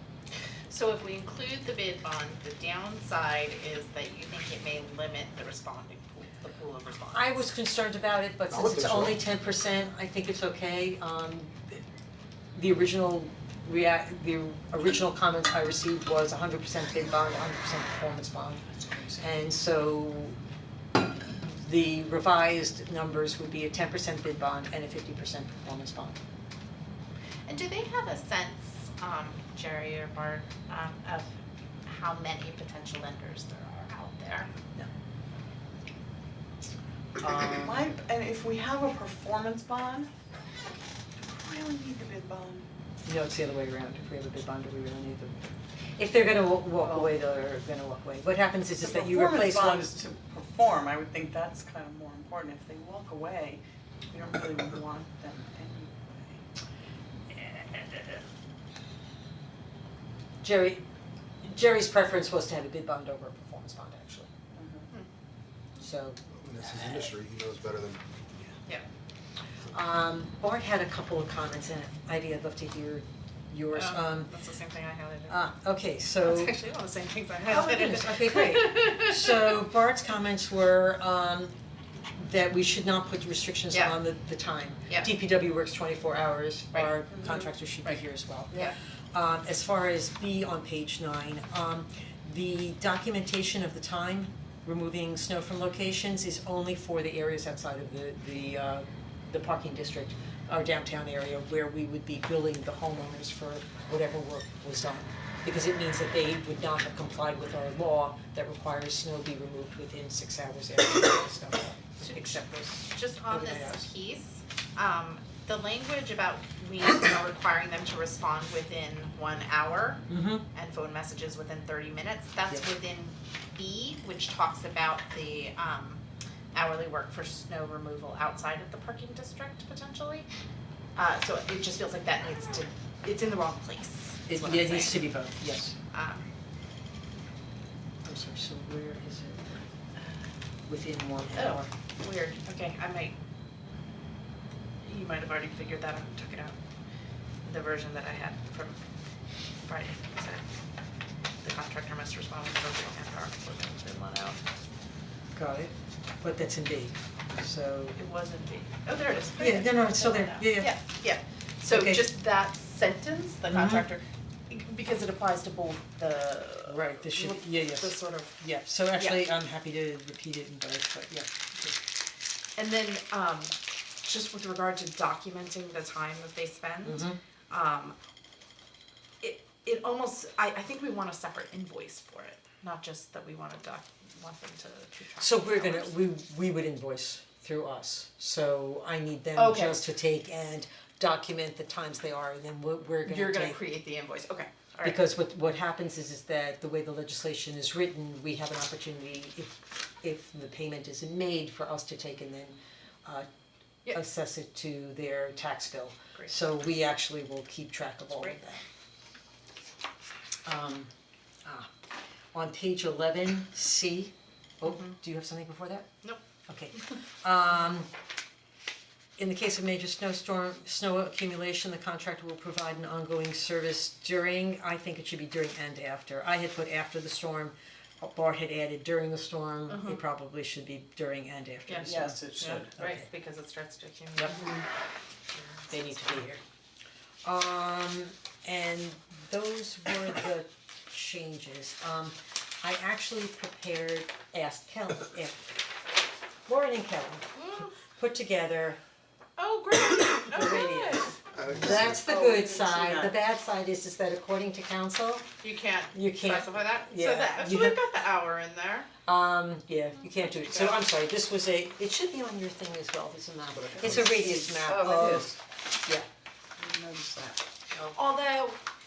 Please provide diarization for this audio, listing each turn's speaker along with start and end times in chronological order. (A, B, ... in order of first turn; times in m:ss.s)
0:00.7-0:07.4 A
0:07.0-0:11.8 B
0:08.5-0:09.2 C
0:12.5-0:18.6 B
0:19.2-0:20.4 B
0:21.2-0:26.2 B
0:27.5-0:31.3 A
0:31.9-0:34.5 A
0:37.2-0:37.7 B
0:37.3-0:40.1 D
0:41.2-0:42.7 D
0:43.0-0:49.9 B
0:46.8-0:47.1 D
0:48.8-0:56.4 D
0:57.3-0:58.2 B
1:00.4-1:00.8 B
1:01.4-1:04.3 B
1:04.6-1:04.9 D
1:05.8-1:07.1 B
1:06.4-1:08.0 C
1:09.7-1:14.3 B
1:13.7-1:15.4 A
1:15.3-1:16.5 B
1:16.2-1:19.6 A
1:17.4-1:21.5 B
1:22.2-1:53.9 B
1:52.0-2:06.0 A
2:00.1-2:00.4 B
2:06.5-2:10.2 A
2:11.0-2:15.1 A
2:14.3-2:15.8 B
2:15.9-2:16.3 A
2:18.0-2:19.4 B
2:20.7-2:21.7 B
2:21.3-2:23.2 A
2:24.8-2:26.6 A
2:27.4-2:28.8 A
2:29.6-2:30.4 A
2:31.4-2:34.4 A
2:35.3-2:38.0 B
2:37.9-2:48.4 A
2:39.4-2:40.8 B
2:41.7-2:42.1 B
2:43.5-2:43.9 B
2:46.7-2:51.8 B
2:49.0-2:49.2 A
2:52.6-2:58.0 A
2:56.8-2:57.2 B
2:59.2-3:05.9 A
3:05.2-3:13.6 B
3:09.4-3:09.8 A
3:13.0-3:15.0 A
3:14.8-3:23.3 B
3:23.9-3:28.6 B
3:30.4-3:30.9 B
3:31.4-3:31.7 B
3:32.3-3:35.9 B
3:34.6-3:34.9 A
3:36.5-3:37.9 B
3:39.2-3:53.1 B
3:49.7-3:50.0 A
3:51.7-3:54.5 A
3:51.8-3:52.7 D
3:54.4-3:54.6 D
3:55.3-3:56.1 A
3:55.7-3:56.4 B
3:57.2-4:05.5 B
4:06.4-4:08.8 B
4:07.3-4:07.7 A
4:09.4-4:11.2 A
4:10.3-4:15.3 B
4:11.3-4:12.0 C
4:12.0-4:13.2 D
4:15.4-4:18.9 A
4:15.9-4:17.8 B
4:19.1-4:26.1 B
4:20.5-4:20.8 A
4:23.5-4:24.3 C
4:23.7-4:25.4 D
4:26.6-4:27.4 D
4:27.9-4:28.6 A